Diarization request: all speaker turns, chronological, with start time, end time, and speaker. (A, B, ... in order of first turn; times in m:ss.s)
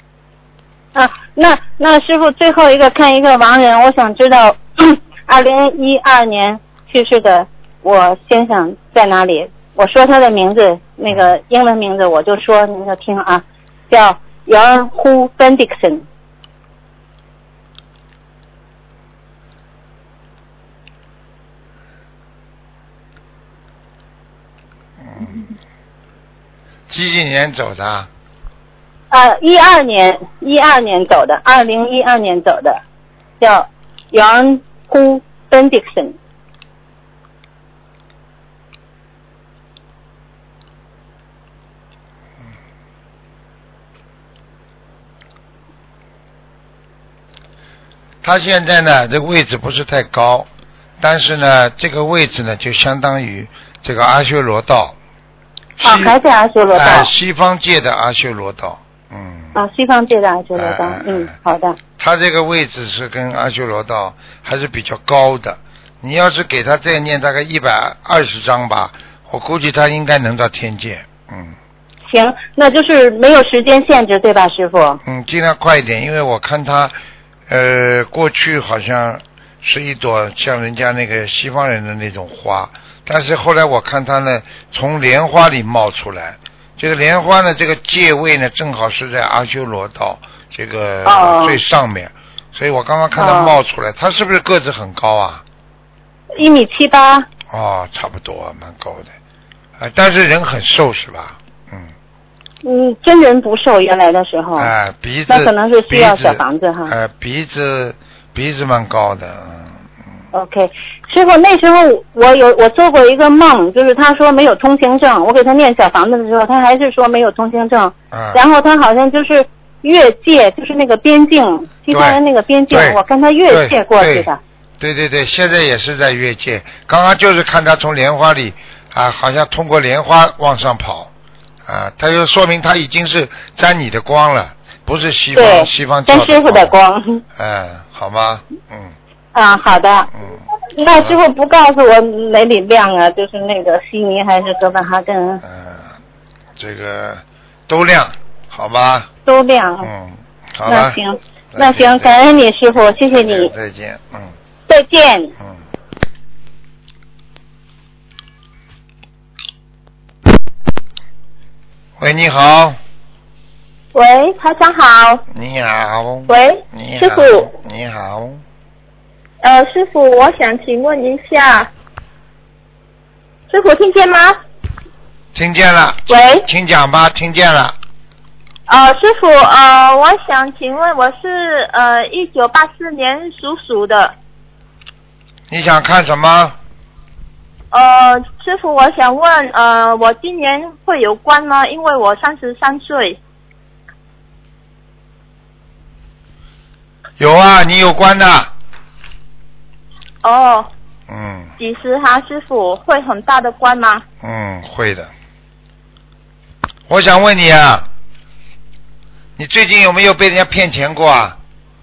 0:00.9-0:16.0 A
0:11.1-0:11.3 B
0:25.0-0:25.4 B
0:26.9-0:28.1 B
0:29.1-0:32.8 A
0:33.4-0:36.1 A
0:48.2-0:50.5 B
0:51.0-0:55.0 B
0:55.8-0:56.1 B
0:55.8-0:57.1 A
0:56.7-0:59.5 B
0:59.5-1:01.8 A
1:00.5-1:01.3 B
1:02.0-1:11.6 B
1:12.1-1:15.0 A
1:15.0-1:17.0 B
1:17.5-1:35.4 B
1:31.0-1:31.6 A
1:33.2-1:33.6 A
1:36.3-1:37.3 A
1:37.5-1:39.1 B
1:39.8-1:41.9 B
1:42.6-1:44.7 A
1:44.6-1:49.8 B
1:45.3-1:46.9 A
1:50.3-2:04.4 A
1:58.1-1:58.4 B
2:01.9-2:04.3 B
2:04.8-2:11.1 B
2:11.6-2:16.8 B
2:15.3-2:17.2 A
2:17.3-2:19.0 B
2:19.3-2:20.1 A
2:20.1-2:20.4 B
2:20.8-2:25.4 A
2:25.4-2:25.9 B
2:26.6-2:29.1 B
2:29.2-2:29.9 A
2:29.8-2:31.0 B
2:30.6-2:33.5 A
2:31.5-2:32.4 B
2:33.1-2:34.3 B
2:34.7-2:35.3 A
2:42.0-2:42.8 B
2:43.9-2:45.2 C
2:45.3-2:48.4 B
2:46.3-2:47.5 C
2:49.4-2:51.7 C
2:53.5-2:54.4 C
2:55.3-2:57.8 B
2:56.1-2:56.5 C
2:58.7-3:04.2 C
3:05.5-3:06.6 B
3:07.7-3:13.2 C
3:17.2-3:18.5 B
3:20.2-3:20.7 C
3:21.1-3:21.5 B
3:21.6-3:24.0 C
3:24.2-3:25.1 B
3:26.9-3:27.9 B
3:29.4-3:31.4 B